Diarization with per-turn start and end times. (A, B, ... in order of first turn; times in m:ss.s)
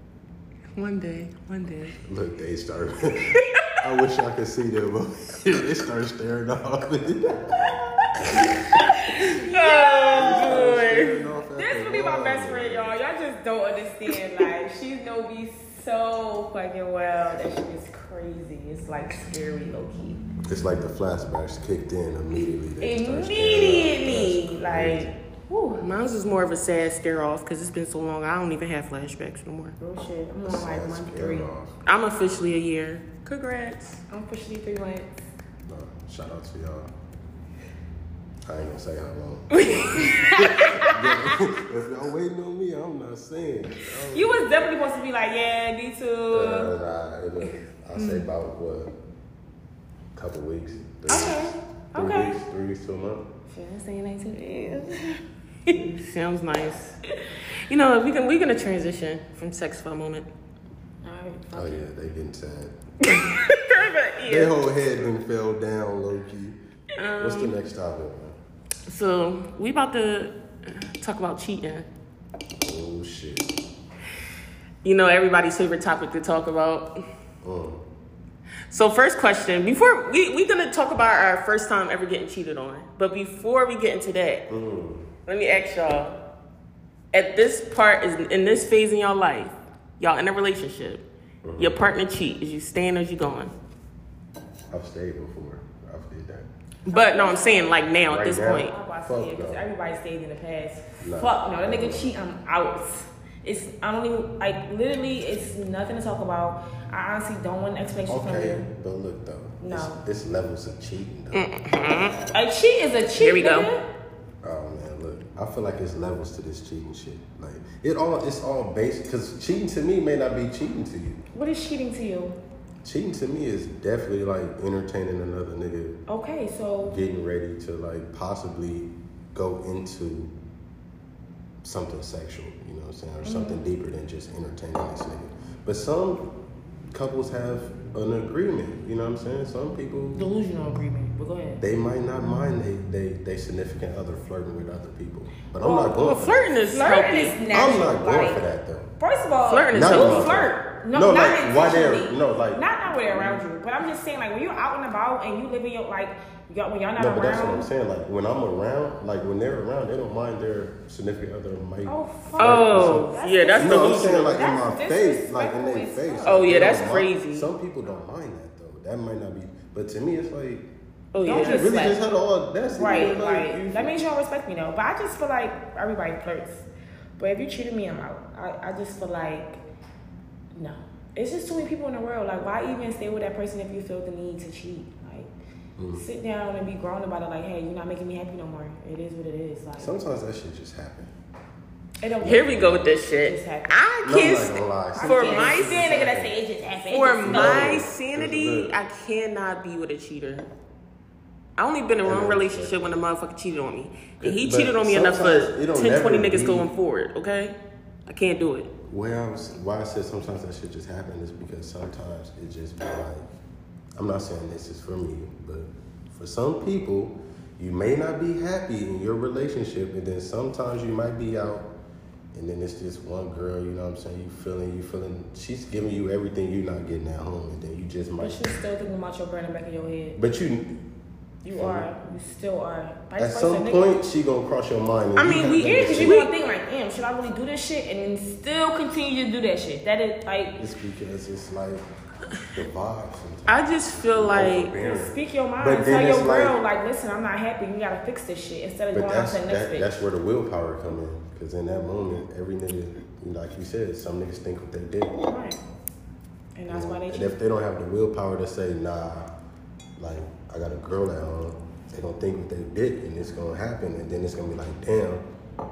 0:00.8-0:02.0 A
0:02.0-0:08.6 B
0:03.3-0:03.8 A
0:08.8-0:10.6 C
0:08.9-0:11.2 A
0:10.2-0:13.0 B
0:11.6-0:20.2 C
0:20.4-0:25.2 B
0:22.8-0:25.8 C
0:25.8-0:29.8 A
0:29.8-0:31.5 C
0:30.4-0:31.8 B
0:31.8-0:34.0 A
0:34.1-0:35.3 C
0:35.7-0:36.9 B
0:38.5-0:44.4 B
0:39.5-0:40.5 A
0:39.9-0:41.1 C
0:44.1-0:46.7 C
0:46.3-0:48.9 B
0:50.2-0:53.3 B
0:51.1-0:52.4 C
0:53.5-0:55.2 C
0:55.7-0:57.0 A
0:57.7-1:00.3 A
1:01.0-1:01.8 C
1:01.5-1:02.8 B
1:03.0-1:04.5 A
1:04.2-1:06.6 B
1:07.0-1:07.6 A
1:07.2-1:08.4 B
1:08.9-1:11.9 A
1:12.6-1:13.5 B
1:14.8-1:17.0 A
1:17.4-1:17.8 B
1:18.7-1:24.4 A
1:24.5-1:25.1 B
1:25.3-1:26.2 A
1:27.1-1:31.0 A
1:31.4-1:31.8 B
1:31.6-1:33.5 A
1:34.7-1:36.5 B
1:36.9-1:38.7 A
1:36.9-1:37.7 C
1:38.1-1:39.7 B
1:38.5-1:48.7 C
1:41.0-1:42.1 B
1:48.1-1:51.5 B
1:49.6-1:50.0 C
1:51.3-1:52.2 A
1:52.3-1:53.8 C
1:53.2-1:53.7 A
1:54.4-2:01.2 B
2:01.3-2:02.4 C
2:02.8-2:06.0 B
2:06.1-2:07.0 C
2:06.8-2:10.3 B
2:11.6-2:16.3 B
2:13.2-2:13.6 C
2:16.9-2:20.3 B
2:20.1-2:21.6 C
2:21.6-2:26.5 B
2:25.6-2:26.0 C
2:26.0-2:27.4 A
2:26.7-2:28.4 C
2:27.5-2:28.9 B
2:29.0-2:37.7 C
2:29.5-2:30.4 A
2:29.7-2:33.4 B
2:37.0-2:50.7 B
2:41.9-2:46.8 C
2:42.4-2:44.4 A
2:46.2-2:47.5 A
2:51.1-2:51.7 A
2:51.2-2:52.0 C
2:51.3-2:54.0 B
2:52.7-2:56.7 C
2:57.2-2:59.6 C
3:00.6-3:05.3 C
3:05.8-3:06.0 B
3:05.9-3:10.0 C
3:09.8-3:11.1 B
3:12.0-3:12.6 C
3:12.2-3:13.0 B
3:12.2-3:15.9 A
3:13.2-3:13.8 C
3:14.0-3:16.4 B
3:14.9-3:17.8 C
3:16.9-3:20.5 A
3:17.2-3:18.7 B
3:21.6-3:27.6 A
3:22.0-3:23.0 B
3:24.2-3:26.7 B
3:28.1-3:28.7 A
3:28.9-3:33.3 B
3:34.0-3:41.7 B
3:42.3-3:48.5 B
3:48.2-3:50.2 C
3:50.2-3:50.8 B
3:51.4-3:53.9 C
3:51.5-3:51.9 B
3:53.2-3:56.2 B
3:55.2-3:56.3 A
3:55.6-4:00.6 C
4:00.6-4:01.9 B
4:02.5-4:06.6 B
4:03.5-4:04.8 A
4:04.8-4:09.9 C
4:08.9-4:15.2 B
4:15.2-4:15.6 C
4:16.6-4:17.4 C
4:16.7-4:19.3 B
4:20.0-4:25.2 B